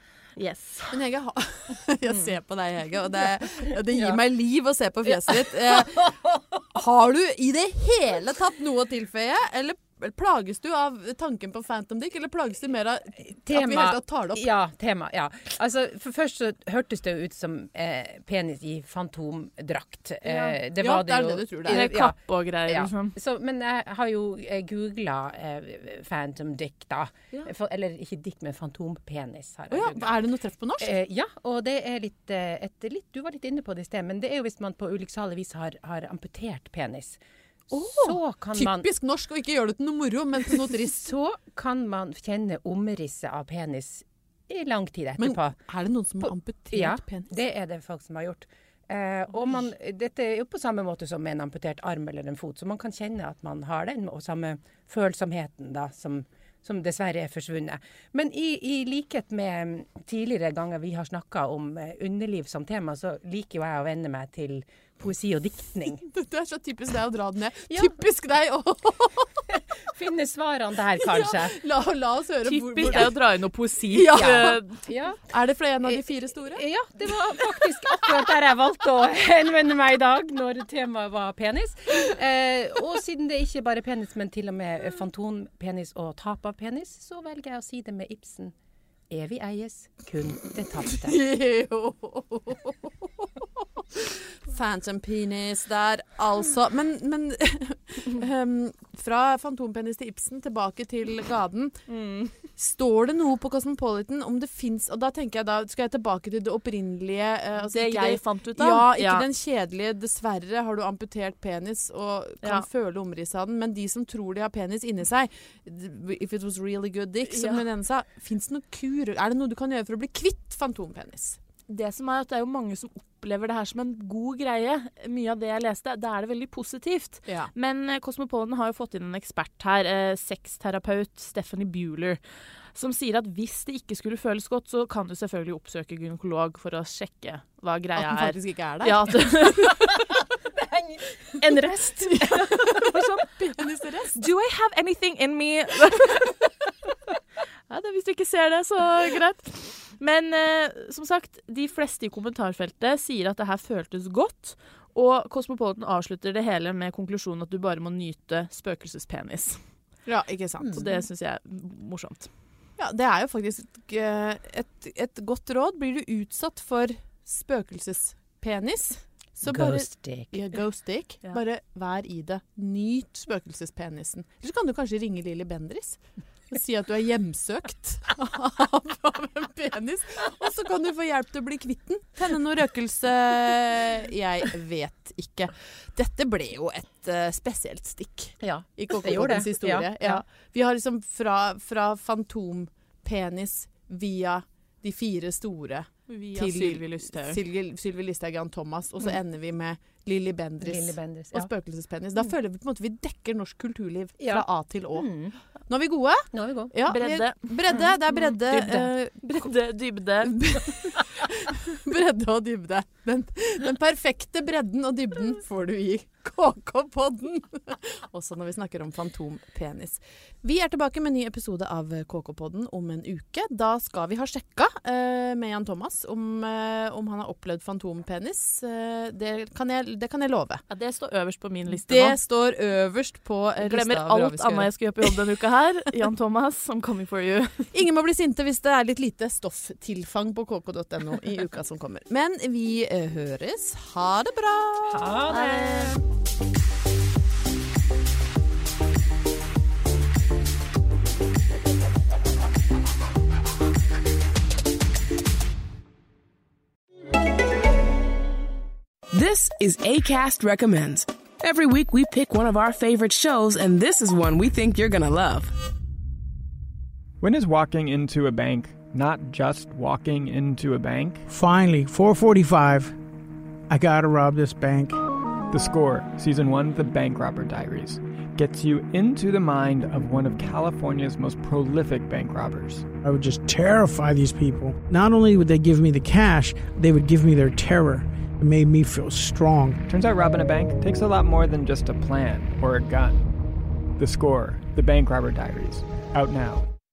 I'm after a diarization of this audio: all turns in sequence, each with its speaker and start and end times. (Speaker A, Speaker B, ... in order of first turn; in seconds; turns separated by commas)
Speaker A: 0.3-0.9, Speaker B: 0.9-14.5, Speaker C: 5.2-6.6, Speaker C: 13.2-30.2, Speaker B: 20.3-21.9, Speaker A: 21.7-23.1, Speaker B: 29.7-30.9, Speaker C: 30.8-37.2, Speaker B: 37.7-41.0, Speaker C: 37.7-38.9, Speaker C: 40.8-45.6, Speaker B: 45.2-47.3, Speaker C: 46.2-66.0, Speaker B: 66.0-69.3, Speaker C: 69.5-71.6, Speaker B: 71.0-73.1, Speaker A: 72.5-74.7, Speaker B: 73.9-74.6, Speaker C: 74.1-75.2, Speaker B: 75.3-76.6, Speaker C: 75.8-88.5, Speaker C: 89.1-91.2, Speaker B: 90.9-101.8, Speaker A: 101.9-102.3, Speaker B: 102.5-121.4, Speaker A: 107.7-109.2, Speaker A: 117.3-117.6, Speaker A: 121.7-132.2, Speaker A: 132.7-139.9, Speaker B: 137.9-139.7, Speaker C: 139.9-142.3, Speaker A: 141.4-143.3, Speaker B: 142.2-144.2, Speaker A: 144.1-146.5, Speaker A: 147.7-159.6, Speaker B: 160.1-160.9, Speaker A: 160.7-162.3, Speaker B: 162.8-205.1, Speaker C: 169.4-170.4, Speaker C: 188.4-190.2, Speaker A: 196.1-197.4, Speaker C: 200.6-201.5, Speaker C: 204.2-204.4, Speaker C: 204.9-205.3, Speaker B: 205.7-209.5, Speaker C: 206.3-206.7, Speaker A: 206.9-210.4, Speaker B: 210.2-230.6, Speaker A: 230.7-232.2, Speaker B: 231.7-235.1, Speaker A: 233.6-237.7, Speaker B: 237.7-245.1, Speaker C: 244.9-246.0, Speaker A: 245.2-245.9, Speaker D: 259.1-265.5, Speaker E: 267.2-271.2, Speaker F: 271.3-272.9, Speaker F: 273.7-275.0, Speaker E: 275.5-282.9, Speaker F: 283.0-289.9, Speaker E: 289.9-293.2, Speaker E: 294.0-296.6